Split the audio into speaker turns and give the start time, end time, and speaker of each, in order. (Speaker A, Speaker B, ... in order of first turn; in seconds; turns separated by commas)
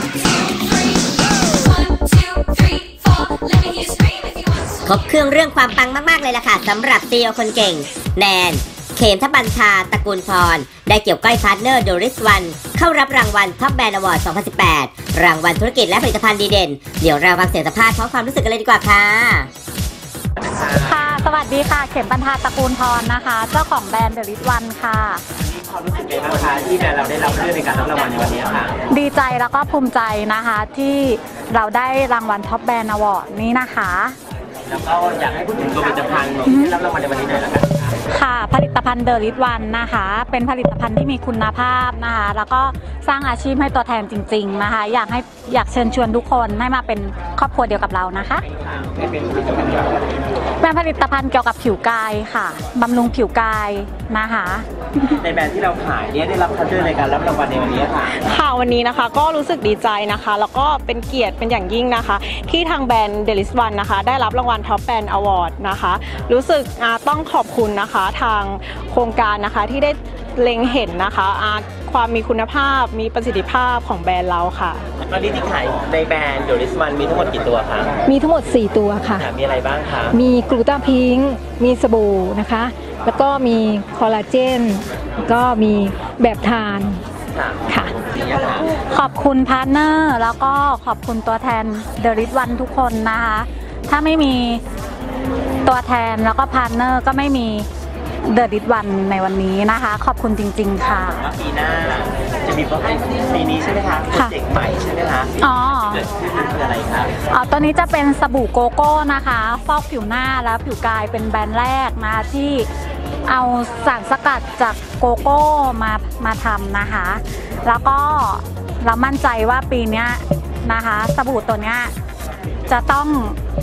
Speaker A: 0.2-0.6, Speaker A: 3.5-4.1, Speaker B: 4.8-19.5, Speaker C: 20.6-25.2, Speaker D: 25.4-28.8, Speaker C: 28.9-34.2, Speaker D: 34.7-37.9, Speaker C: 36.5-36.8, Speaker C: 38.1-48.5, Speaker D: 48.8-49.6, Speaker C: 50.6-54.7, Speaker D: 55.2-58.4, Speaker E: 58.2-74.8, Speaker D: 75.1-77.9, Speaker A: 78.1-79.3, Speaker D: 79.2-80.2, Speaker A: 80.1-87.0, Speaker D: 87.3-88.7, Speaker A: 87.7-87.9, Speaker C: 88.9-94.6, Speaker C: 95.7-97.7, Speaker C: 98.2-101.3, Speaker D: 101.2-107.1, Speaker C: 105.4-106.0, Speaker C: 107.3-112.7, Speaker C: 113.3-121.9, Speaker C: 122.7-123.4